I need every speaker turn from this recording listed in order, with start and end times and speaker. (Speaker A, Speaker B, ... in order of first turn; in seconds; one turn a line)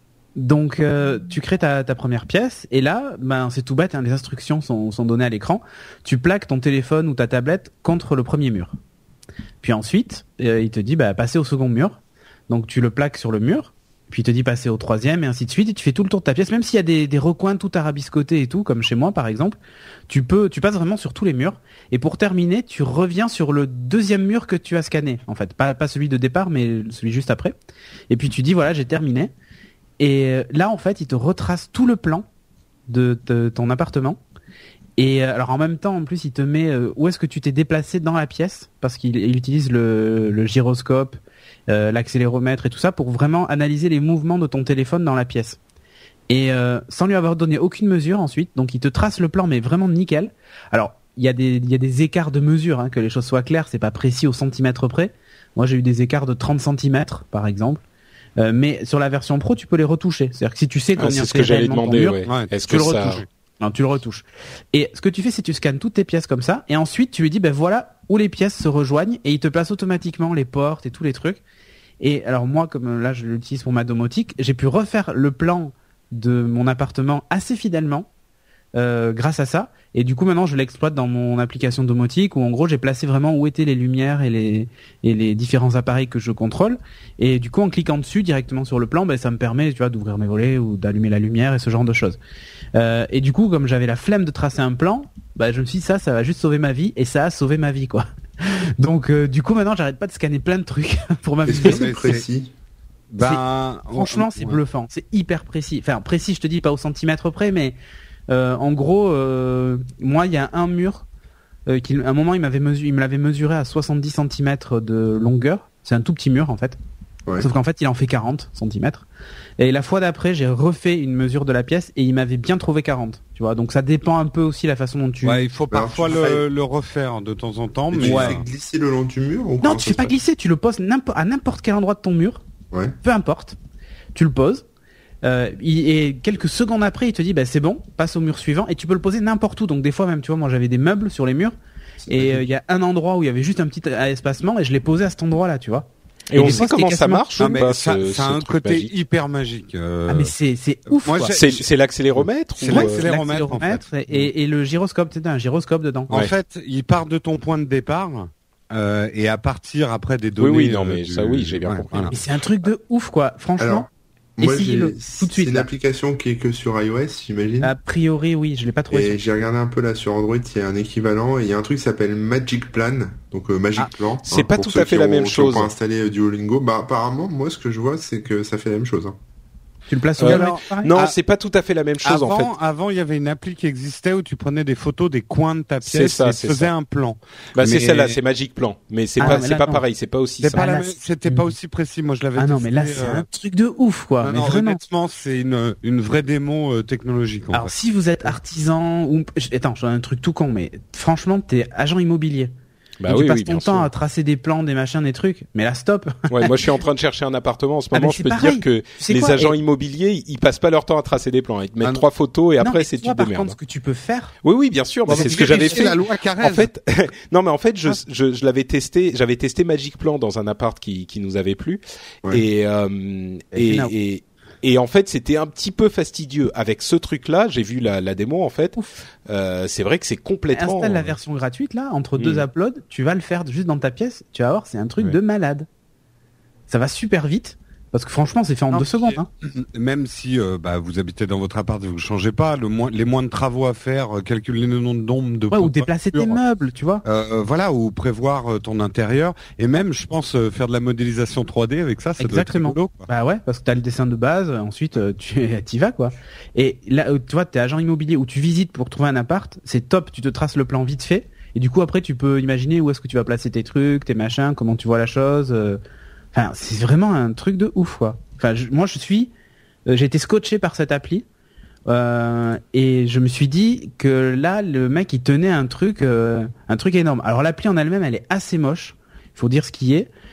Speaker A: 0.4-8.8
Speaker A: 9.6-19.6
Speaker A: 20.1-27.5
Speaker A: 28.1-29.3
Speaker A: 30.0-32.3
Speaker A: 32.9-34.2
Speaker A: 35.0-45.6
Speaker A: 46.3-57.8
Speaker A: 58.4-71.4
Speaker B: 61.0-63.2
Speaker C: 62.3-63.3
Speaker A: 72.0-78.1
Speaker A: 78.8-92.2
Speaker A: 92.8-101.9
Speaker D: 101.5-102.5
Speaker C: 101.6-102.2
Speaker C: 103.1-104.6
Speaker A: 103.2-107.8
Speaker A: 108.3-111.1
Speaker A: 111.7-116.8
Speaker A: 117.4-119.1
Speaker A: 119.6-125.5
Speaker C: 125.2-128.4
Speaker D: 125.7-126.4
Speaker D: 127.9-130.2
Speaker A: 128.0-128.4
Speaker A: 129.6-132.4
Speaker A: 133.0-133.6
Speaker A: 134.2-134.7
Speaker A: 135.2-141.6
Speaker A: 142.1-147.6
Speaker B: 146.3-148.9
Speaker C: 147.4-150.3
Speaker A: 150.1-151.4
Speaker C: 150.9-154.3
Speaker B: 151.3-153.1
Speaker A: 152.7-156.1
Speaker C: 156.1-162.1
Speaker B: 160.4-162.1
Speaker A: 162.1-163.9
Speaker D: 163.6-163.9
Speaker D: 164.4-167.7
Speaker A: 164.4-165.7
Speaker A: 167.6-169.2
Speaker D: 168.9-179.2
Speaker B: 174.3-175.7
Speaker A: 179.9-180.9
Speaker C: 180.2-181.2
Speaker B: 180.2-182.5
Speaker C: 182.0-188.2
Speaker B: 185.8-186.7
Speaker B: 187.6-190.7
Speaker A: 189.2-189.8
Speaker C: 190.4-193.3
Speaker A: 190.5-191.5
Speaker A: 192.4-194.8
Speaker C: 194.2-197.7
Speaker A: 197.5-202.5
Speaker B: 203.0-203.9
Speaker A: 203.1-206.6
Speaker B: 206.3-213.6
Speaker A: 207.9-209.5
Speaker C: 211.8-212.1
Speaker A: 212.6-214.3
Speaker B: 214.4-231.2
Speaker C: 215.1-216.7
Speaker A: 215.1-215.8
Speaker A: 223.5-223.9
Speaker A: 230.5-235.7
Speaker B: 232.2-232.4
Speaker A: 236.7-239.3
Speaker C: 238.7-246.4
Speaker A: 245.5-247.0
Speaker C: 247.0-253.1
Speaker A: 252.2-265.8
Speaker A: 266.3-269.3
Speaker A: 269.9-271.2
Speaker A: 271.9-280.1